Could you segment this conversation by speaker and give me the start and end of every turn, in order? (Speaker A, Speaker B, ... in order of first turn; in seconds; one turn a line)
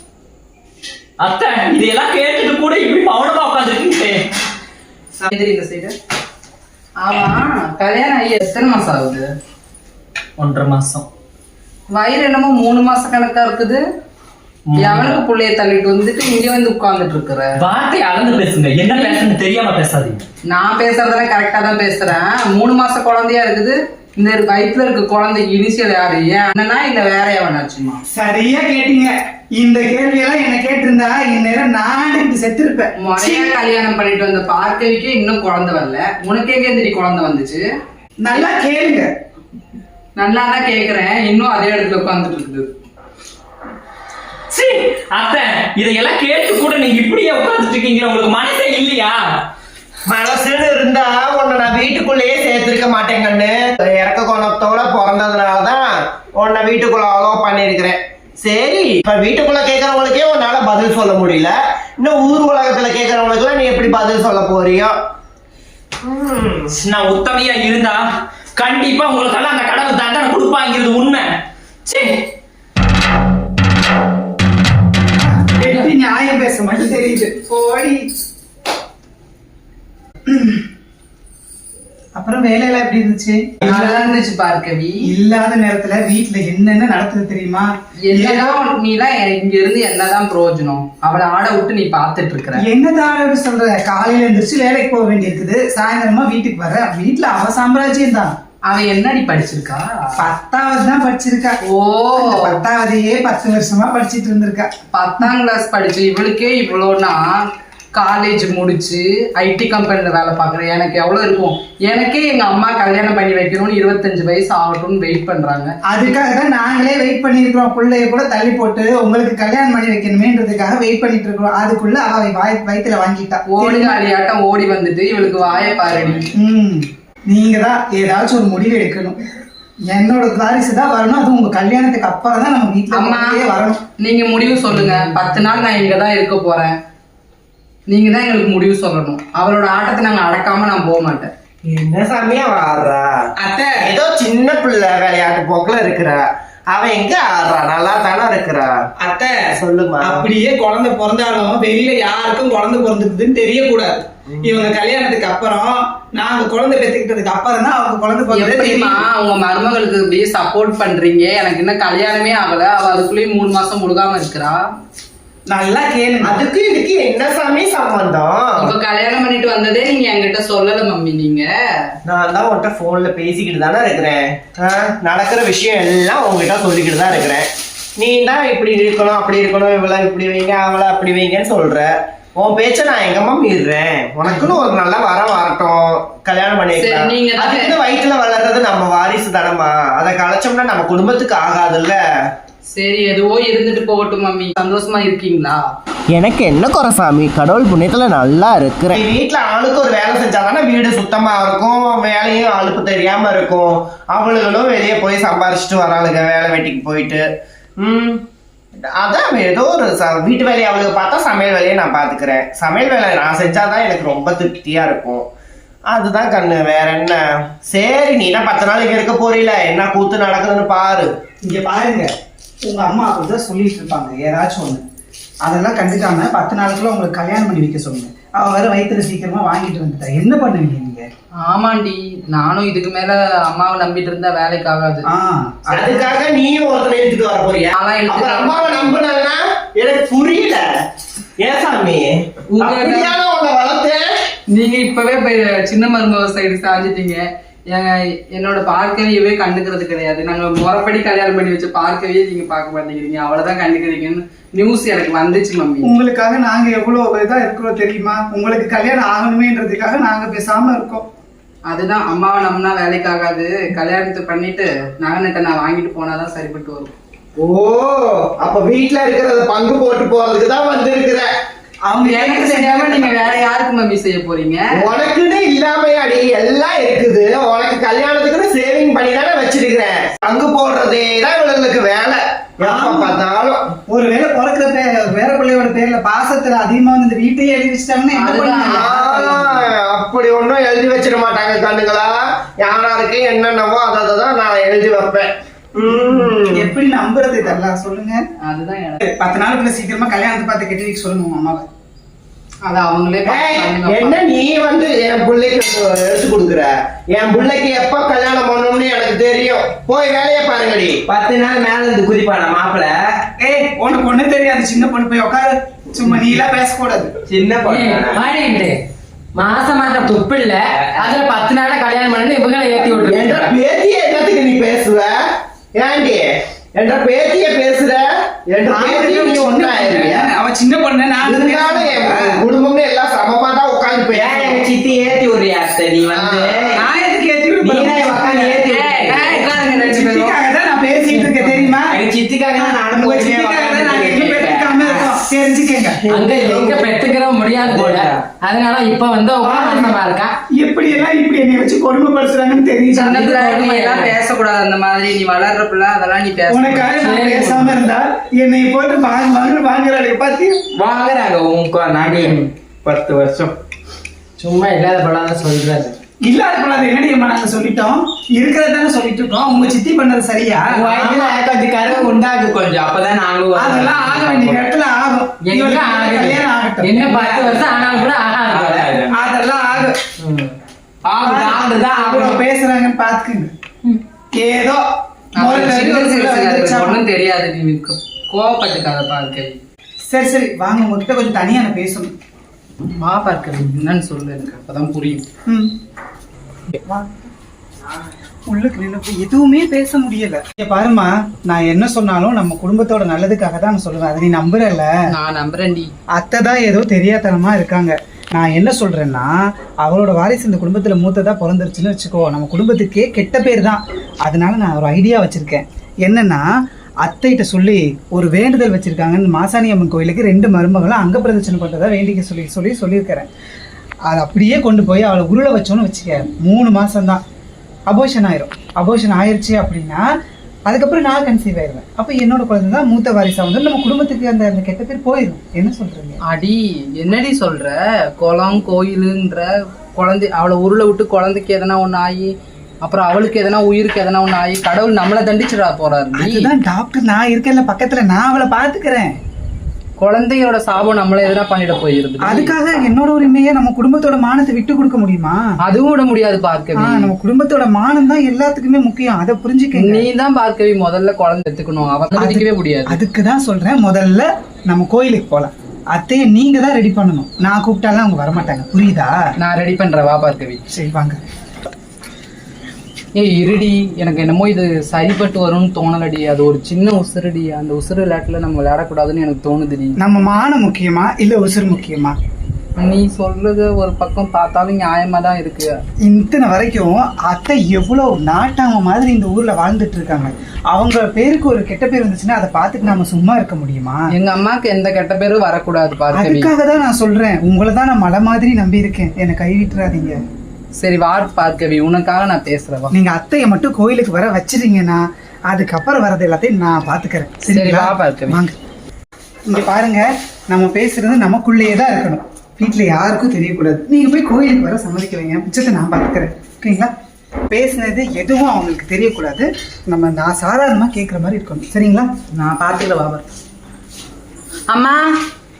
Speaker A: 1.2-4.3
Speaker B: 5.2-5.9
Speaker B: 7.0-9.3
Speaker A: 10.4-11.1
Speaker B: 11.9-13.8
Speaker A: 14.7-15.2
Speaker B: 14.8-17.6
Speaker A: 17.6-20.2
Speaker B: 18.9-19.3
Speaker B: 20.5-28.0
Speaker C: 28.1-33.5
Speaker B: 33.0-37.6
Speaker C: 38.2-39.1
Speaker B: 40.1-42.7
Speaker A: 44.5-49.2
Speaker D: 50.1-64.9
Speaker D: 66.0-66.7
Speaker A: 66.7-68.0
Speaker A: 68.5-71.3
Speaker A: 71.8-72.2
Speaker C: 75.2-78.1
Speaker C: 80.3-80.6
Speaker C: 82.2-84.2
Speaker B: 83.6-85.0
Speaker C: 85.1-88.6
Speaker B: 88.0-92.6
Speaker C: 92.6-98.3
Speaker B: 98.7-100.2
Speaker C: 100.2-101.6
Speaker B: 101.6-102.6
Speaker C: 102.2-105.3
Speaker B: 104.9-107.3
Speaker B: 107.9-115.7
Speaker C: 115.9-124.0
Speaker B: 123.5-126.3
Speaker C: 126.4-129.2
Speaker C: 129.9-133.8
Speaker B: 132.9-133.4
Speaker B: 134.0-136.8
Speaker B: 137.9-141.3
Speaker D: 141.7-143.1
Speaker E: 143.4-143.7
Speaker D: 143.8-148.8
Speaker C: 149.0-149.4
Speaker D: 149.6-150.2
Speaker C: 150.0-159.0
Speaker D: 154.3-154.6
Speaker B: 158.3-164.6
Speaker C: 165.5-166.4
Speaker D: 166.2-168.7
Speaker B: 168.6-171.5
Speaker D: 172.0-177.5
Speaker D: 178.0-192.0
Speaker B: 186.7-187.8
Speaker B: 192.7-195.6
Speaker D: 196.1-207.2
Speaker D: 207.8-208.2
Speaker D: 208.9-215.2
Speaker D: 215.9-221.1
Speaker C: 221.4-222.1
Speaker C: 222.6-224.8
Speaker C: 225.4-231.1
Speaker B: 231.4-235.1
Speaker C: 235.1-236.2
Speaker D: 235.7-240.7
Speaker B: 237.7-238.9
Speaker D: 241.4-244.1
Speaker B: 242.5-243.1
Speaker B: 244.5-255.9
Speaker C: 255.8-261.1
Speaker B: 261.7-266.9
Speaker D: 267.4-271.3
Speaker C: 271.9-273.2
Speaker B: 272.0-274.6
Speaker D: 274.8-283.6
Speaker C: 282.6-283.2
Speaker C: 283.9-289.4
Speaker B: 288.1-289.5
Speaker D: 288.7-296.7
Speaker C: 295.8-298.2
Speaker B: 298.4-299.0
Speaker C: 299.0-301.6
Speaker B: 302.6-304.2
Speaker D: 303.2-311.0
Speaker E: 311.1-313.0
Speaker C: 313.4-317.1
Speaker E: 317.3-318.2
Speaker F: 317.6-318.8
Speaker F: 319.3-323.5
Speaker E: 320.7-321.2
Speaker D: 322.8-325.1
Speaker D: 325.8-330.3
Speaker C: 328.7-332.4
Speaker D: 331.2-334.7
Speaker E: 334.1-336.8
Speaker D: 336.1-336.8
Speaker C: 336.7-338.6
Speaker E: 337.6-339.5
Speaker B: 338.7-340.4
Speaker C: 339.6-342.0
Speaker E: 341.9-345.1
Speaker C: 342.6-346.0
Speaker D: 346.0-346.8
Speaker F: 346.1-350.3
Speaker E: 347.6-348.2
Speaker C: 349.4-350.0
Speaker C: 350.5-354.1
Speaker B: 352.9-357.0
Speaker C: 356.5-360.6
Speaker F: 357.0-357.8
Speaker E: 360.7-363.6
Speaker F: 364.4-365.9
Speaker C: 366.2-370.9
Speaker E: 370.7-374.6
Speaker F: 371.0-371.4
Speaker C: 373.5-377.2
Speaker F: 375.4-378.9
Speaker E: 377.1-379.1
Speaker C: 379.1-380.0
Speaker F: 380.2-380.5
Speaker C: 381.2-383.5
Speaker F: 381.2-382.2
Speaker E: 381.9-382.4
Speaker C: 384.3-384.8
Speaker C: 385.4-387.0
Speaker B: 385.4-389.6
Speaker C: 390.1-392.1
Speaker B: 393.0-395.2
Speaker C: 395.5-395.7
Speaker C: 396.8-397.3
Speaker C: 398.5-404.9
Speaker B: 405.1-405.9
Speaker C: 406.1-416.4
Speaker C: 417.0-423.3
Speaker C: 424.1-427.2
Speaker C: 427.9-430.0
Speaker C: 430.7-436.2
Speaker B: 436.3-446.5
Speaker C: 446.1-449.1
Speaker B: 450.0-452.5
Speaker C: 452.2-455.4
Speaker B: 455.6-457.1
Speaker C: 456.8-460.1
Speaker B: 459.8-463.0
Speaker C: 462.1-469.1
Speaker B: 469.4-470.6
Speaker C: 470.7-471.2
Speaker B: 473.1-480.0
Speaker C: 480.0-482.1
Speaker B: 482.8-485.7
Speaker C: 486.0-494.0
Speaker B: 494.1-496.5
Speaker C: 496.1-500.2
Speaker B: 500.8-502.9
Speaker C: 502.9-508.6
Speaker B: 507.5-508.4
Speaker C: 509.5-516.9
Speaker C: 517.5-522.1
Speaker B: 522.3-523.2
Speaker B: 524.7-525.1